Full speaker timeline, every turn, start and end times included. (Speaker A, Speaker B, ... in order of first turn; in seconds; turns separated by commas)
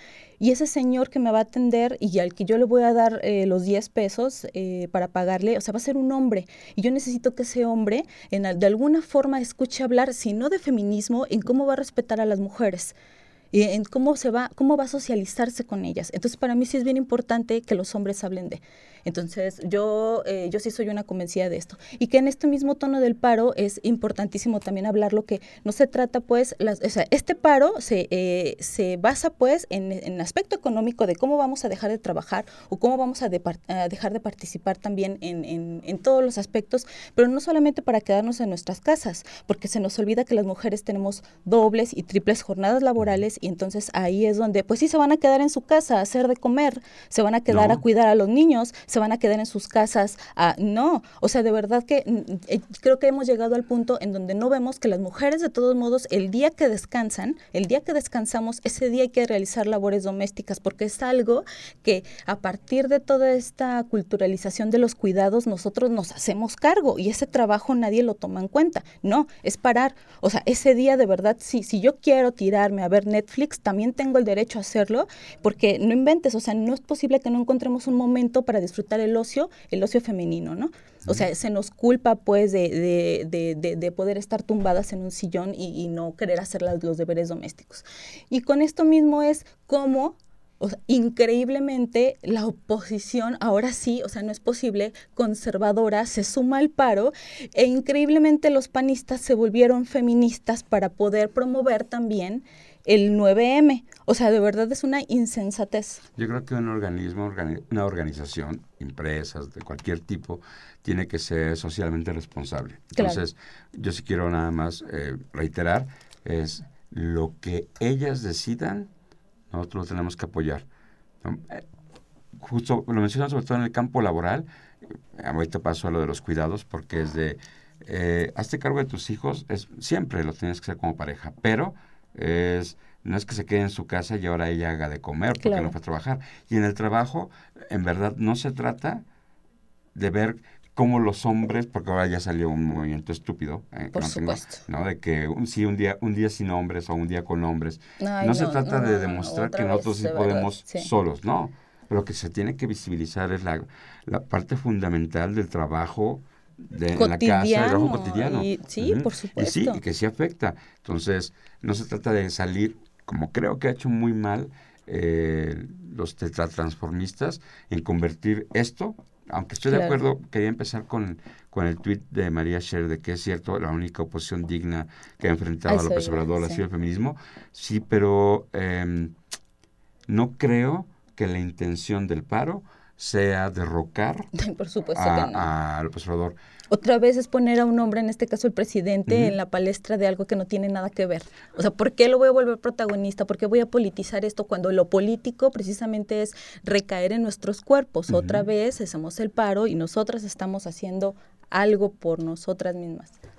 Speaker A: 0.4-12.9, Speaker A: 13.5-106.0, Speaker B: 47.5-47.8, Speaker B: 106.2-118.9, Speaker A: 113.0-113.2, Speaker B: 119.5-120.7, Speaker B: 121.2-121.7, Speaker B: 122.3-139.0, Speaker A: 135.4-135.7, Speaker B: 139.9-179.1, Speaker A: 143.9-144.6, Speaker A: 148.0-150.9, Speaker A: 157.0-159.8, Speaker A: 169.7-170.0, Speaker A: 175.7-176.6, Speaker B: 180.1-184.3, Speaker A: 184.3-185.5, Speaker B: 184.9-186.4, Speaker A: 186.7-203.2, Speaker B: 189.1-189.3, Speaker B: 198.1-198.4